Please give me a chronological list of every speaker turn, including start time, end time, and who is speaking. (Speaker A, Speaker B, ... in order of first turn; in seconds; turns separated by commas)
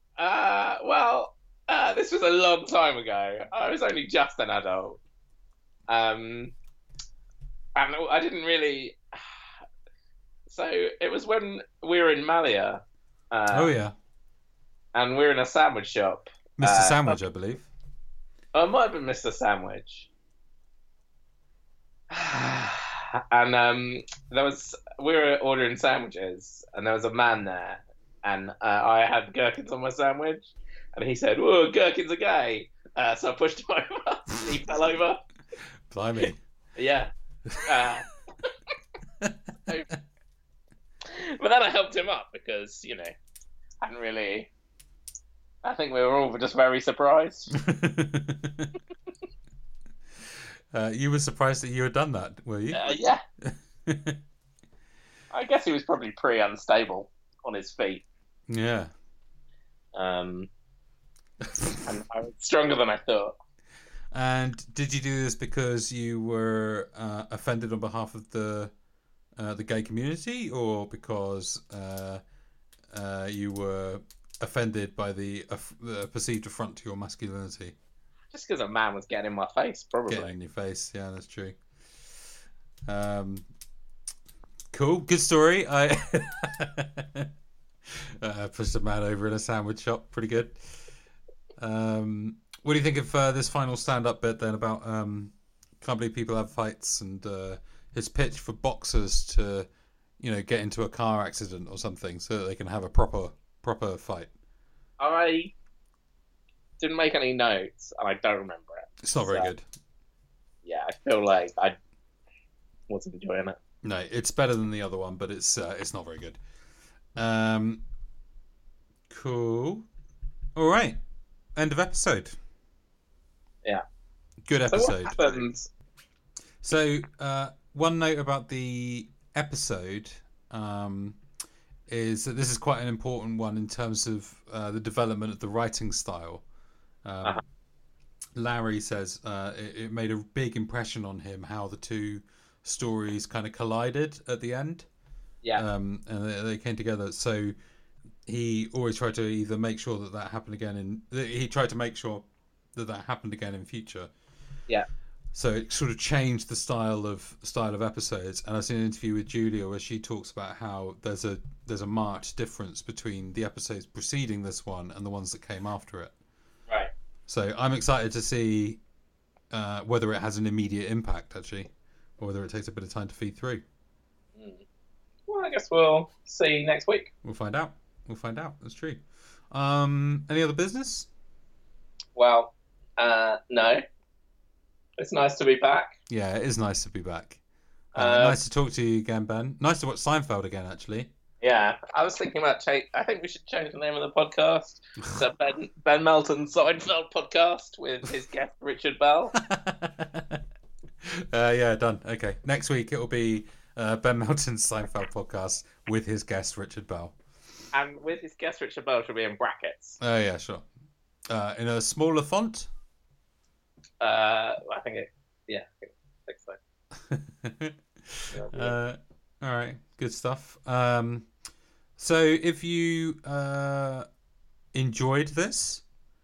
Speaker A: 0.2-5.0, Speaker A: 5.9-6.5, Speaker A: 7.8-9.2, Speaker A: 10.5-13.7, Speaker B: 13.5-13.9, Speaker A: 14.9-17.2, Speaker B: 16.6-17.7, Speaker A: 18.5-20.1, Speaker A: 22.1-35.2, Speaker B: 35.9-36.4, Speaker A: 36.8-37.1, Speaker B: 37.5-37.8, Speaker A: 37.6-38.1, Speaker B: 39.2-39.7, Speaker A: 41.0-43.1, Speaker A: 43.8-44.5, Speaker A: 45.6-47.5, Speaker B: 47.5-48.8, Speaker B: 50.7-52.9, Speaker A: 52.7-53.2, Speaker B: 53.4-54.2, Speaker A: 55.3-58.0, Speaker B: 58.5-58.9, Speaker A: 60.0-60.5, Speaker B: 61.4-61.8, Speaker A: 61.9-63.4, Speaker B: 64.1-68.7, Speaker B: 69.4-72.2, Speaker B: 72.9-77.8, Speaker A: 78.3-80.3, Speaker B: 80.1-81.6, Speaker B: 82.9-83.5, Speaker B: 84.7-87.3, Speaker B: 87.9-90.6, Speaker B: 91.6-99.7, Speaker B: 100.2-104.3, Speaker A: 105.0-105.5, Speaker A: 106.8-109.5, Speaker B: 109.0-109.7, Speaker A: 110.7-111.8, Speaker A: 112.9-113.6, Speaker B: 113.8-116.4, Speaker B: 117.2-117.8, Speaker B: 119.1-119.9, Speaker B: 120.5-121.0, Speaker B: 121.6-122.4, Speaker B: 124.5-125.4, Speaker A: 124.7-125.7, Speaker B: 126.6-131.2, Speaker B: 131.9-136.4, Speaker B: 137.1-137.4, Speaker B: 138.4-144.9, Speaker B: 145.5-147.6, Speaker B: 148.3-154.1, Speaker B: 155.3-166.1, Speaker B: 167.3-168.8, Speaker B: 169.5-173.6, Speaker A: 174.4-174.6, Speaker A: 175.3-177.1, Speaker B: 177.2-181.1, Speaker A: 182.2-183.8, Speaker A: 185.0-185.9, Speaker B: 186.1-187.4, Speaker A: 187.9-188.4, Speaker B: 187.9-191.1, Speaker A: 191.4-199.4, Speaker B: 199.4-200.4, Speaker B: 201.0-207.2, Speaker A: 207.7-210.0, Speaker B: 210.0-210.7, Speaker B: 211.3-212.7, Speaker A: 214.0-216.6, Speaker B: 217.0-221.3, Speaker A: 218.3-218.8, Speaker B: 222.0-224.1, Speaker B: 224.7-225.8